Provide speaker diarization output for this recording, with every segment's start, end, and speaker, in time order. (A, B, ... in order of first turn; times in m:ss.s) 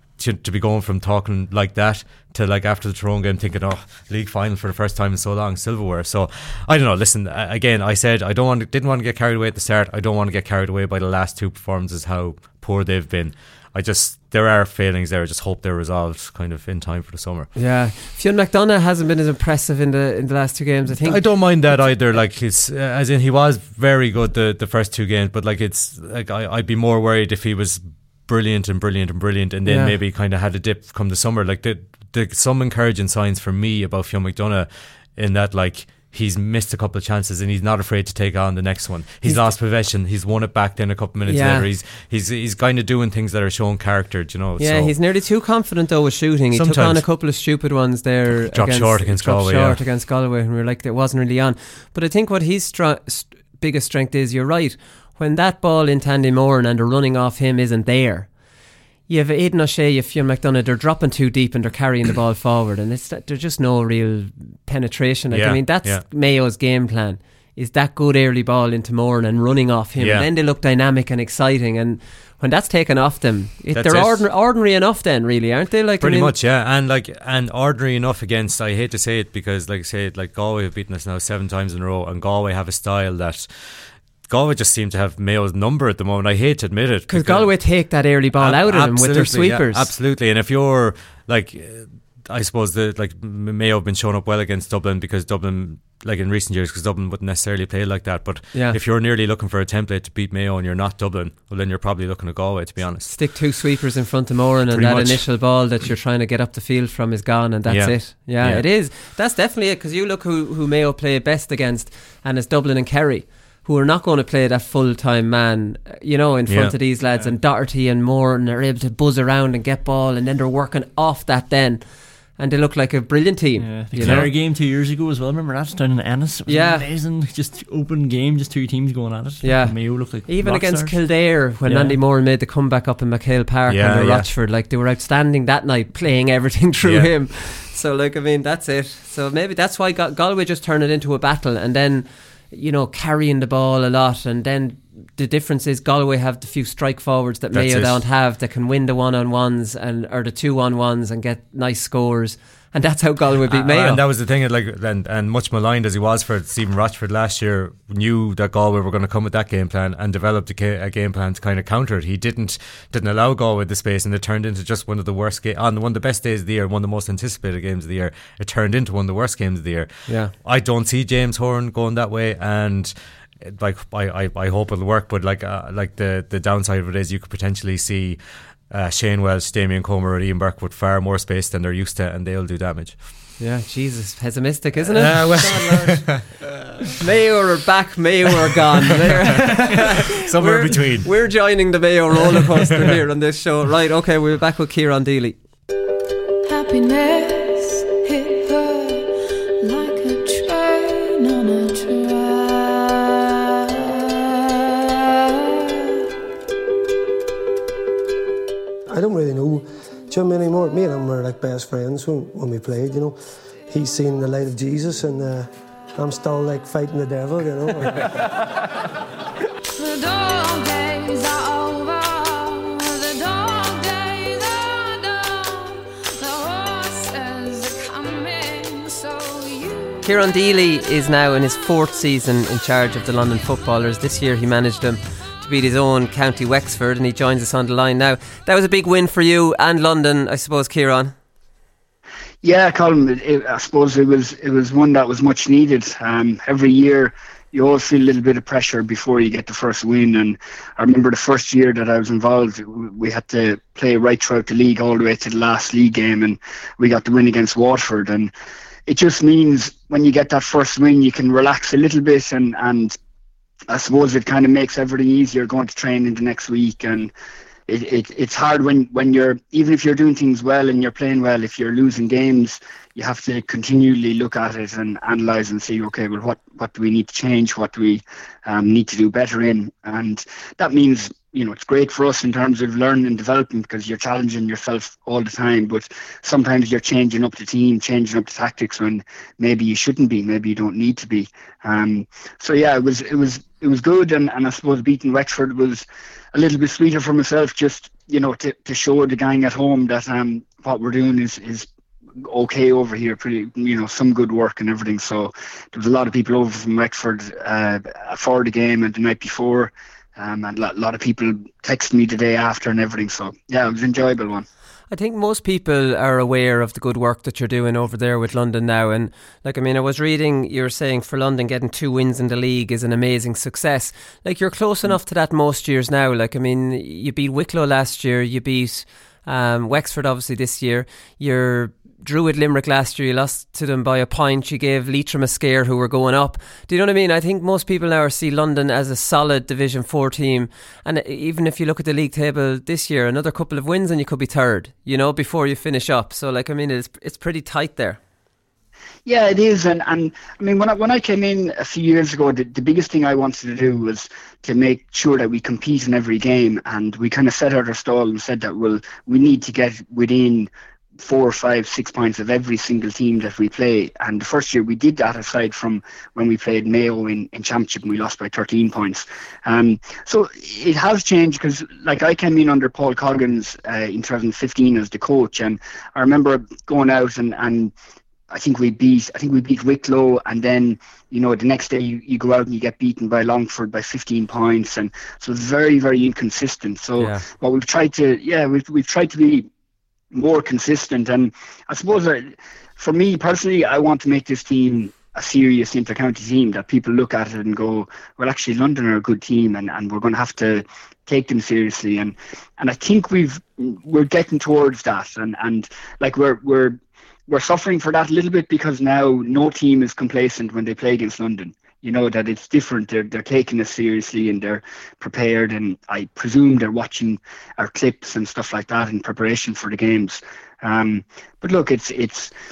0:00.2-0:17.5 A
0:17.6-0:21.6 B
0:20.9-0:45.0 A
0:29.7-0:30.0 B
0:39.2-0:39.5 B
0:41.3-0:41.7 B
0:44.6-0:58.3 B
0:46.5-0:47.1 A
0:48.4-0:49.8 A
0:59.1-1:16.4 B
1:05.3-1:06.0 A
1:10.0-1:10.3 A
1:13.7-1:14.3 A
1:16.0-1:27.7 A
1:27.1-1:29.9 B
1:28.3-1:43.2 A
1:38.5-1:38.8 B
1:43.1-2:04.3 B
1:44.7-1:45.3 A
1:47.7-1:48.7 A
1:56.5-1:56.8 A
2:03.6-2:12.0 C
2:04.0-2:04.3 A
2:06.5-2:06.9 B
2:09.4-2:34.0 B
2:13.7-2:14.3 A
2:16.8-2:17.1 A
2:27.5-2:28.0 A
2:33.5-3:03.0 A
2:50.1-2:50.3 B
3:03.4-3:06.1 B
3:04.9-3:06.7 A
3:07.0-3:15.4 B
3:09.6-3:11.1 A
3:16.5-3:24.1 D
3:28.9-3:33.2 E
3:33.7-3:38.0 E
3:39.8-3:50.2 D
3:50.0-4:01.2 B
4:02.4-4:18.3 F
4:18.9-4:23.0 F
4:23.7-4:27.1 F
4:27.7-5:01.7 F
5:02.2-5:14.5 F
5:14.9-5:48.0 B
5:49.1-6:17.7 F
6:18.3-6:29.5 F
6:27.0-6:27.3 B
6:30.1-7:02.3 F